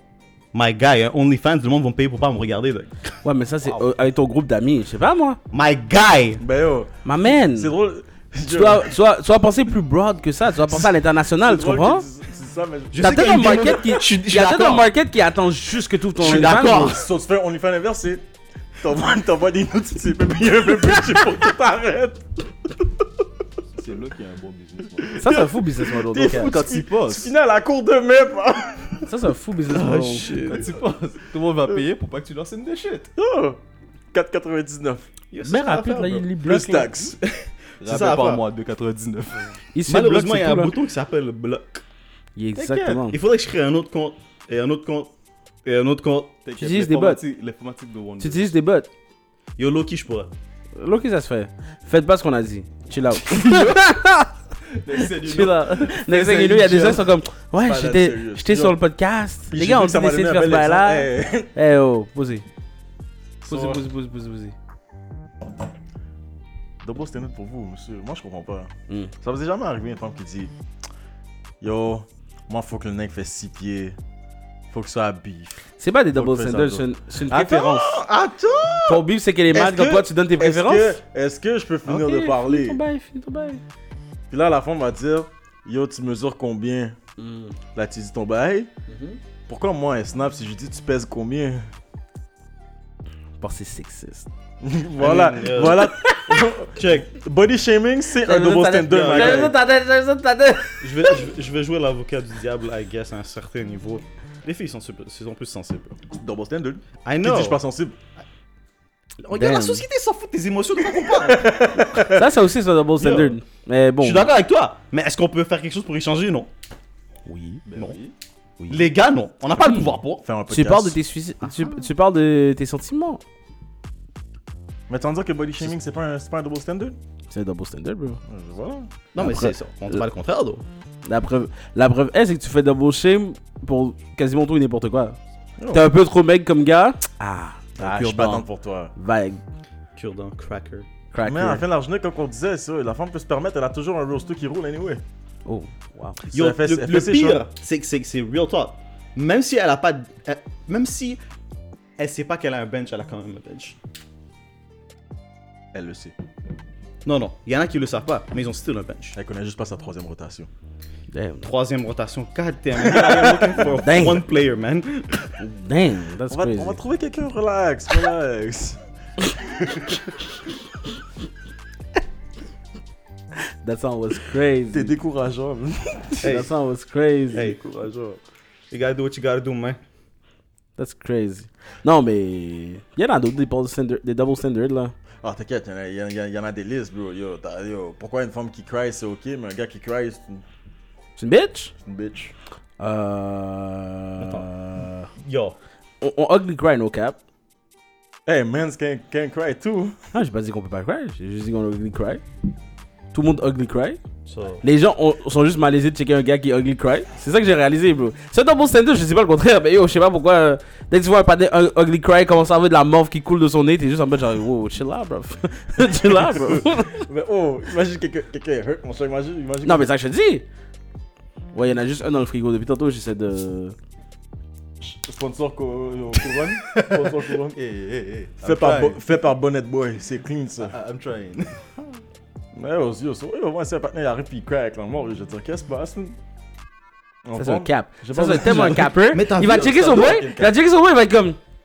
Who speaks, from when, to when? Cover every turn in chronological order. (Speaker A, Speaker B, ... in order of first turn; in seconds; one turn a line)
Speaker A: 0.5-2.9
Speaker B: 3.2-5.4
Speaker A: 5.5-6.4
Speaker C: 6.4-8.9
Speaker B: 7.0-7.7
Speaker B: 8.4-12.1
Speaker C: 10.7-13.2
Speaker A: 12.9-14.9
Speaker B: 13.0-17.0
Speaker A: 16.1-17.0
Speaker C: 16.2-18.2
Speaker C: 18.8-22.3
Speaker D: 23.7-25.3
Speaker C: 25.0-29.1
Speaker B: 25.2-26.6
Speaker D: 26.2-27.3
Speaker B: 29.1-30.3
Speaker A: 29.7-30.8
Speaker D: 30.2-33.1
Speaker C: 33.1-33.6
Speaker C: 34.1-35.1
Speaker A: 35.3-36.3
Speaker B: 35.4-37.1
Speaker C: 36.4-37.3
Speaker D: 37.8-39.6
Speaker A: 37.8-38.5
Speaker B: 39.7-40.8
Speaker A: 39.9-41.8
Speaker B: 42.4-43.2
Speaker D: 42.6-43.0
Speaker A: 42.8-45.1
Speaker A: 45.6-46.4
Speaker D: 46.4-48.5
Speaker B: 46.6-47.2
Speaker B: 48.2-48.9
Speaker A: 49.6-50.3
Speaker B: 50.8-54.3
Speaker D: 53.3-53.8
Speaker D: 54.7-57.0
Speaker B: 55.1-62.5
Speaker C: 57.5-58.8
Speaker C: 59.5-61.5
Speaker C: 63.4-63.9
Speaker B: 63.5-64.5
Speaker C: 66.8-70.5
Speaker C: 71.6-74.0
Speaker C: 74.7-82.8
Speaker B: 75.8-78.0
Speaker B: 78.8-81.0
Speaker B: 81.8-83.6
Speaker C: 84.3-87.0
Speaker B: 87.2-87.5
Speaker C: 87.7-88.7
Speaker B: 88.9-89.2
Speaker C: 89.5-91.7
Speaker B: 93.4-94.3
Speaker C: 94.6-99.6
Speaker A: 95.0-95.9
Speaker B: 95.9-96.4
Speaker A: 96.8-97.1
Speaker B: 98.2-101.2
Speaker A: 98.8-99.5
Speaker A: 100.8-106.0
Speaker C: 106.1-108.0
Speaker A: 107.0-107.6
Speaker A: 109.2-111.9
Speaker B: 109.3-109.8
Speaker C: 111.2-112.2
Speaker B: 112.1-114.3
Speaker A: 113.0-113.4
Speaker A: 114.0-116.5
Speaker B: 117.2-117.6
Speaker D: 117.7-118.1
Speaker B: 118.6-118.9
Speaker A: 118.7-120.2
Speaker C: 120.2-121.0
Speaker B: 120.5-123.2
Speaker A: 121.4-121.8
Speaker C: 124.9-127.0
Speaker B: 127.3-128.2
Speaker C: 128.3-128.9
Speaker A: 129.1-130.6
Speaker B: 129.2-130.0
Speaker B: 131.0-135.2
Speaker C: 135.6-135.9
Speaker B: 135.7-138.4
Speaker C: 137.8-138.9
Speaker B: 138.9-139.4
Speaker A: 139.9-140.9
Speaker B: 141.1-141.6
Speaker C: 141.2-145.0
Speaker B: 145.4-146.2
Speaker C: 146.2-147.4
Speaker A: 146.3-151.2
Speaker A: 152.0-153.8
Speaker C: 155.7-156.1
Speaker A: 157.0-159.2
Speaker C: 159.2-160.5
Speaker B: 161.1-161.5
Speaker A: 161.4-165.1
Speaker C: 162.8-163.8
Speaker B: 163.8-164.2
Speaker B: 165.4-166.8
Speaker C: 166.3-170.1
Speaker B: 173.6-174.9
Speaker C: 174.7-176.3
Speaker A: 176.2-176.5
Speaker B: 176.2-177.4
Speaker C: 177.3-178.2
Speaker A: 177.3-177.6
Speaker A: 178.7-179.8
Speaker B: 180.8-184.9
Speaker C: 185.2-190.4
Speaker B: 191.2-191.7
Speaker C: 191.8-192.3
Speaker B: 192.8-195.1
Speaker A: 194.2-194.5
Speaker A: 195.2-195.6
Speaker B: 196.0-197.2
Speaker C: 198.2-200.0
Speaker B: 200.1-202.2
Speaker B: 203.1-204.0
Speaker A: 204.2-204.6
Speaker B: 204.6-217.1
Speaker C: 216.2-219.9
Speaker B: 219.6-220.4
Speaker B: 221.5-223.8
Speaker C: 224.8-227.6
Speaker D: 226.2-229.0
Speaker C: 228.4-230.7
Speaker D: 230.6-231.7
Speaker C: 232.5-236.2
Speaker C: 237.2-238.8
Speaker B: 237.3-241.4
Speaker A: 238.2-240.2
Speaker D: 239.4-240.6